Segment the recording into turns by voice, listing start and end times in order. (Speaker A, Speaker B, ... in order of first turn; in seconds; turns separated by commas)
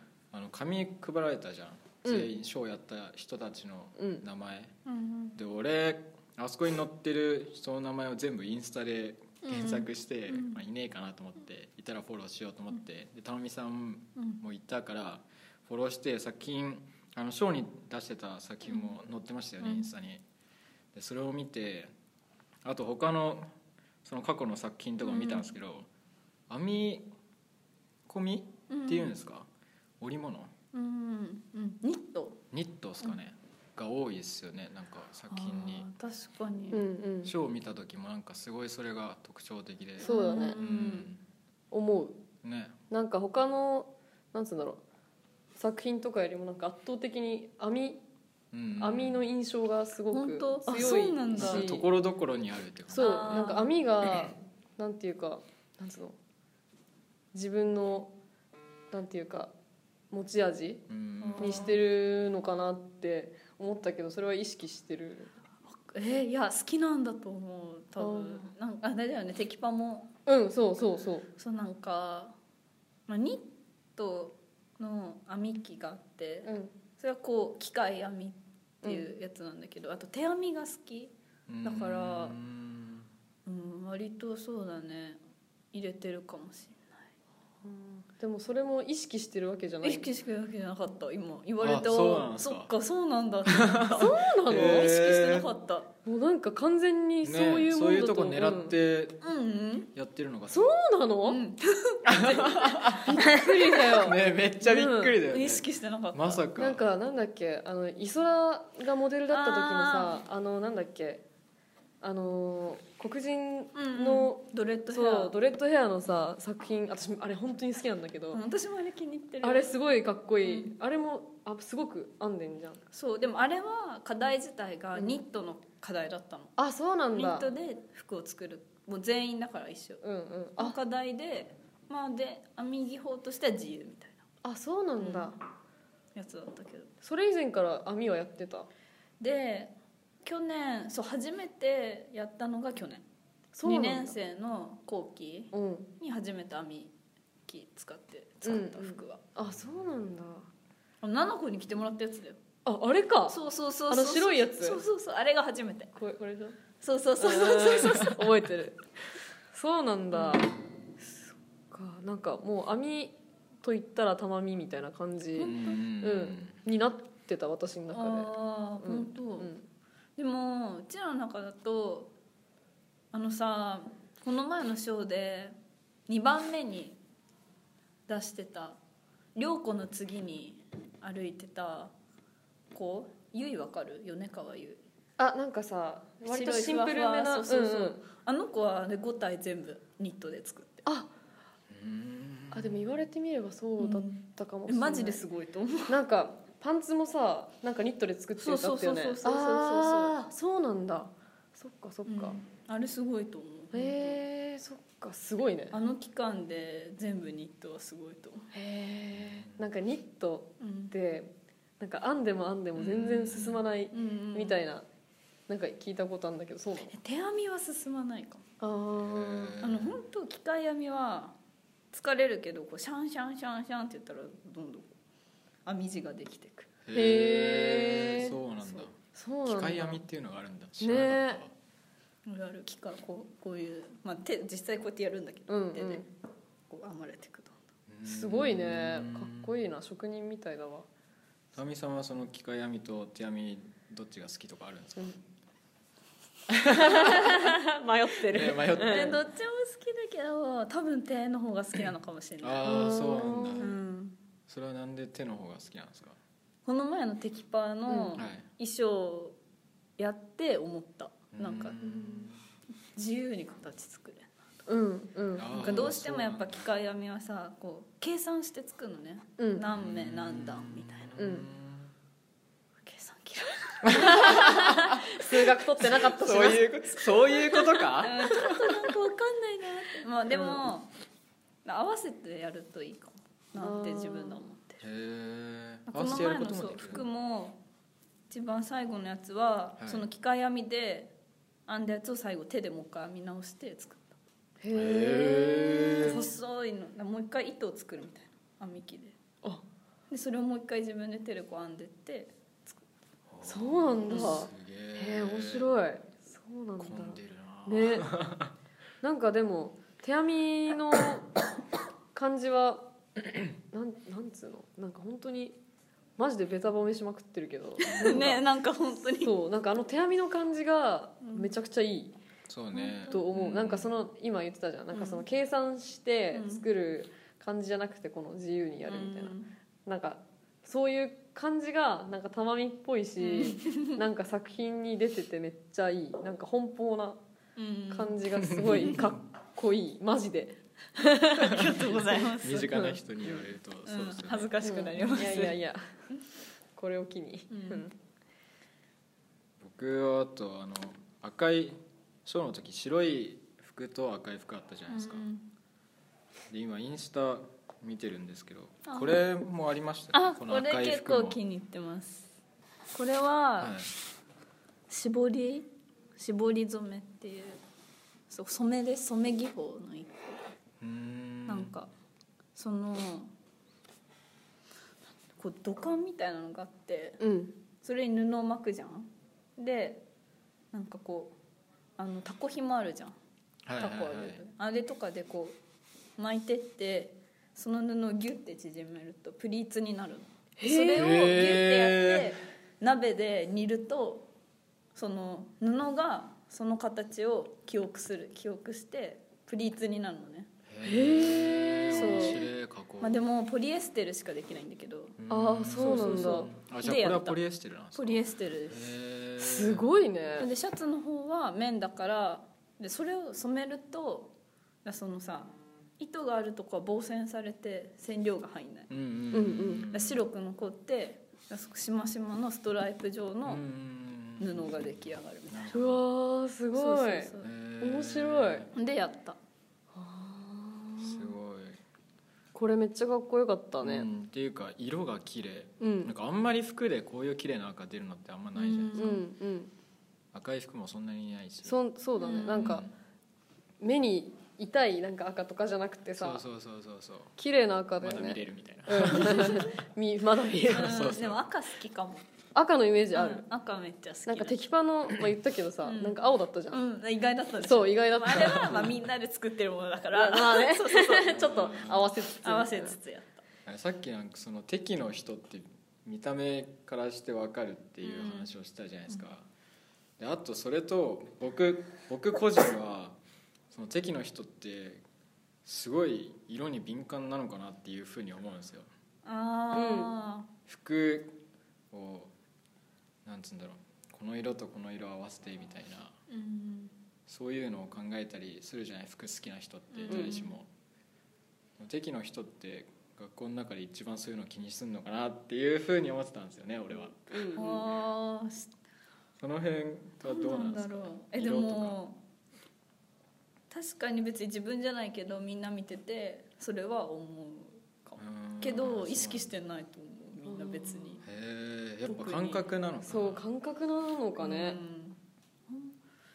Speaker A: 0.3-4.7, Speaker B: 2.0-2.3, Speaker B: 4.0-4.2, Speaker C: 4.8-5.3, Speaker A: 5.3-20.2, Speaker C: 9.4-10.6, Speaker A: 20.9-21.9, Speaker A: 22.6-23.5, Speaker A: 24.0-25.9, Speaker C: 25.0-25.5, Speaker A: 26.5-27.1, Speaker A: 28.1-29.5, Speaker C: 28.7-29.1, Speaker A: 30.0-30.5, Speaker C: 30.7-32.4, Speaker A: 32.5-35.9, Speaker C: 35.3-36.8, Speaker B: 36.7-37.3, Speaker A: 37.2-41.2, Speaker B: 40.0-40.6, Speaker C: 40.0-41.1, Speaker B: 41.7-42.2, Speaker A: 42.4-42.7, Speaker B: 42.9-44.8, Speaker B: 45.5-48.0, Speaker A: 48.5-49.2, Speaker B: 48.8-51.9, Speaker C: 50.1-51.7, Speaker A: 51.3-53.4, Speaker B: 52.9-56.2, Speaker C: 52.9-53.7, Speaker B: 57.3-58.1, Speaker B: 58.9-59.5, Speaker B: 60.1-60.8, Speaker A: 60.9-61.8, Speaker C: 61.2-61.8, Speaker B: 61.4-65.3, Speaker C: 65.7-70.1, Speaker B: 68.0-68.5, Speaker B: 70.2-71.3, Speaker C: 71.4-72.3, Speaker C: 73.1-81.1, Speaker B: 76.4-76.7, Speaker A: 81.5-83.1, Speaker C: 81.6-82.4, Speaker C: 83.5-85.2, Speaker C: 85.7-87.0, Speaker B: 87.6-90.1, Speaker C: 89.8-95.9, Speaker A: 91.6-92.7, Speaker A: 93.5-95.5, Speaker B: 93.9-94.9, Speaker B: 96.0-98.8, Speaker A: 97.2-99.3, Speaker C: 99.2-99.9, Speaker A: 99.9-100.7, Speaker B: 100.5-101.4, Speaker C: 101.2-103.9, Speaker A: 102.0-103.2, Speaker B: 102.9-105.2, Speaker A: 103.8-106.8, Speaker C: 105.2-106.4, Speaker B: 106.6-111.2, Speaker C: 109.3-110.2, Speaker B: 112.0-118.4, Speaker C: 113.7-115.3, Speaker C: 118.3-119.7, Speaker B: 119.4-122.8, Speaker C: 120.4-120.7, Speaker C: 122.9-126.5, Speaker B: 126.6-127.5, Speaker C: 127.2-130.0, Speaker B: 130.0-130.8, Speaker C: 130.6-134.2, Speaker B: 134.4-135.4, Speaker C: 135.0-135.3, Speaker C: 136.1-136.9, Speaker B: 137.0-138.7, Speaker C: 139.2-139.7, Speaker C: 140.2-143.0, Speaker B: 143.5-144.2, Speaker C: 143.6-146.9, Speaker B: 145.5-145.9, Speaker C: 147.5-149.2, Speaker B: 148.4-150.5, Speaker C: 151.0-152.4, Speaker B: 152.6-154.8, Speaker C: 153.3-155.9, Speaker B: 155.9-156.6, Speaker C: 156.8-158.3, Speaker B: 157.2-158.8, Speaker B: 159.5-169.6, Speaker C: 160.1-160.4, Speaker A: 165.4-166.5, Speaker C: 165.4-165.7, Speaker C: 167.9-169.5, Speaker C: 170.2-172.1, Speaker C: 173.1-175.5, Speaker C: 176.1-177.0, Speaker C: 178.1-178.8, Speaker C: 179.3-181.9, Speaker C: 182.7-184.8, Speaker B: 185.2-188.0, Speaker C: 186.2-190.8, Speaker B: 190.8-191.1, Speaker A: 191.7-192.9, Speaker B: 192.5-195.2, Speaker C: 193.8-196.0, Speaker B: 195.9-202.4, Speaker C: 198.4-200.1, Speaker C: 202.1-204.2, Speaker B: 203.7-205.8, Speaker C: 205.7-208.5, Speaker B: 208.5-214.8, Speaker A: 209.1-209.5, Speaker C: 210.6-210.9, Speaker A: 212.8-213.6, Speaker C: 213.9-214.6, Speaker B: 215.5-216.9, Speaker C: 216.8-218.4, Speaker B: 218.6-219.6, Speaker A: 219.0-220.0, Speaker C: 219.6-221.3, Speaker C: 221.9-224.9, Speaker C: 225.7-226.7, Speaker A: 226.8-231.5, Speaker B: 226.9-230.0, Speaker B: 230.8-231.4, Speaker C: 232.2-236.1, Speaker B: 235.5-236.1, Speaker C: 236.7-237.5, Speaker A: 237.9-239.5, Speaker B: 238.0-240.8, Speaker A: 241.5-245.2, Speaker A: 246.5-247.5, Speaker B: 246.7-249.2, Speaker A: 248.3-249.2, Speaker C: 248.8-252.8, Speaker A: 252.4-253.8, Speaker B: 252.6-253.7, Speaker C: 253.6-254.2, Speaker A: 254.5-256.2, Speaker C: 256.6-259.4, Speaker B: 257.9-258.2, Speaker A: 258.1-258.4, Speaker C: 260.0-261.8, Speaker A: 261.3-262.4, Speaker B: 261.8-262.3, Speaker C: 262.9-264.4, Speaker B: 264.7-265.9, Speaker A: 265.4-266.6, Speaker C: 265.5-271.2, Speaker B: 269.4-269.6, Speaker A: 269.7-271.9, Speaker B: 271.2-271.5, Speaker C: 272.8-274.6, Speaker A: 273.8-275.0, Speaker B: 273.9-277.1, Speaker A: 275.8-278.9, Speaker C: 277.4-280.9, Speaker B: 280.3-280.6, Speaker C: 281.6-284.8, Speaker B: 283.6-284.4, Speaker A: 284.8-287.1, Speaker C: 285.9-287.6, Speaker C: 288.3-291.1, Speaker A: 289.8-290.1, Speaker C: 291.7-294.1, Speaker B: 294.6-296.2, Speaker A: 294.7-296.3, Speaker C: 296.0-299.2, Speaker C: 300.1-302.7, Speaker A: 303.3-305.7, Speaker B: 303.4-308.1, Speaker A: 306.8-308.5, Speaker B: 309.0-311.3, Speaker B: 312.1-312.9, Speaker B: 313.6-315.6, Speaker B: 316.2-318.4, Speaker C: 317.8-319.3, Speaker A: 317.9-318.3, Speaker B: 319.2-322.1, Speaker C: 321.2-321.5, Speaker A: 322.5-323.9, Speaker C: 322.7-323.2, Speaker B: 323.1-337.2, Speaker C: 324.9-325.2, Speaker C: 326.3-326.6, Speaker C: 328.9-329.5, Speaker C: 333.2-334.0, Speaker C: 337.6-338.2, Speaker B: 337.9-342.0, Speaker A: 338.4-339.1, Speaker C: 341.3-342.8, Speaker A: 341.5-345.5, Speaker B: 342.7-343.0, Speaker C: 343.9-345.6, Speaker B: 344.6-345.9, Speaker B: 346.8-347.9, Speaker C: 347.5-347.8, Speaker A: 349.6-355.2, Speaker C: 354.9-355.5, Speaker A: 356.5-361.4, Speaker C: 358.9-359.2, Speaker C: 360.1-362.3, Speaker C: 362.9-363.9, Speaker A: 363.6-363.9, Speaker C: 364.9-367.6, Speaker C: 368.3-370.5, Speaker A: 370.8-371.7, Speaker C: 371.5-371.9, Speaker C: 372.5-373.3, Speaker C: 375.4-377.2, Speaker B: 377.2-377.5, Speaker C: 377.8-380.0, Speaker C: 380.7-381.3, Speaker C: 382.0-383.1, Speaker A: 383.6-384.4, Speaker C: 383.8-385.6, Speaker C: 386.2-394.3, Speaker B: 390.6-391.1, Speaker A: 390.9-392.4, Speaker C: 394.9-400.5, Speaker A: 400.7-403.2, Speaker B: 400.8-402.4, Speaker C: 401.9-402.5, Speaker C: 403.0-405.2, Speaker A: 405.2-409.9, Speaker B: 405.3-406.5, Speaker C: 405.7-407.4, Speaker C: 407.9-408.9, Speaker B: 409.4-410.5, Speaker C: 410.4-414.3, Speaker C: 414.8-418.9, Speaker A: 418.9-420.2, Speaker B: 419.3-419.9, Speaker C: 419.9-423.6, Speaker A: 423.4-424.8, Speaker C: 424.4-425.8, Speaker A: 425.5-426.0, Speaker B: 425.7-428.7, Speaker C: 426.7-427.5, Speaker A: 427.4-428.7, Speaker C: 428.7-429.4, Speaker B: 429.9-431.3, Speaker A: 431.0-431.8, Speaker B: 432.5-434.1, Speaker A: 433.8-439.2, Speaker B: 435.8-436.1, Speaker C: 438.5-439.2, Speaker B: 438.9-439.7, Speaker A: 440.3-441.8, Speaker B: 441.6-442.9, Speaker C: 442.2-442.7, Speaker A: 442.4-442.9, Speaker B: 443.8-446.4, Speaker A: 446.2-447.3, Speaker B: 447.4-451.1, Speaker A: 448.0-449.7, Speaker A: 450.7-451.4, Speaker C: 450.7-452.3, Speaker B: 452.5-453.4, Speaker C: 453.1-454.6, Speaker B: 454.3-456.8, Speaker C: 455.8-461.4, Speaker B: 457.6-458.8, Speaker A: 458.3-458.9, Speaker B: 460.1-463.0, Speaker A: 461.2-462.1, Speaker C: 462.3-463.4, Speaker A: 463.6-469.4, Speaker C: 468.0-468.5, Speaker A: 470.2-473.2, Speaker A: 473.7-475.0, Speaker A: 475.6-478.9, Speaker C: 479.2-480.5, Speaker B: 479.7-480.1, Speaker A: 480.7-481.4, Speaker A: 481.9-482.3, Speaker A: 483.2-486.2, Speaker C: 486.3-486.9, Speaker A: 487.3-490.7, Speaker C: 489.9-490.5, Speaker B: 490.1-490.4, Speaker A: 491.8-497.2, Speaker B: 497.3-497.9, Speaker C: 497.6-498.7, Speaker A: 499.4-502.0, Speaker C: 500.2-502.2, Speaker C: 503.7-511.2, Speaker A: 508.2-509.5, Speaker B: 510.5-511.1, Speaker A: 511.2-513.4, Speaker C: 512.0-512.7, Speaker B: 513.0-514.8, Speaker C: 514.4-516.0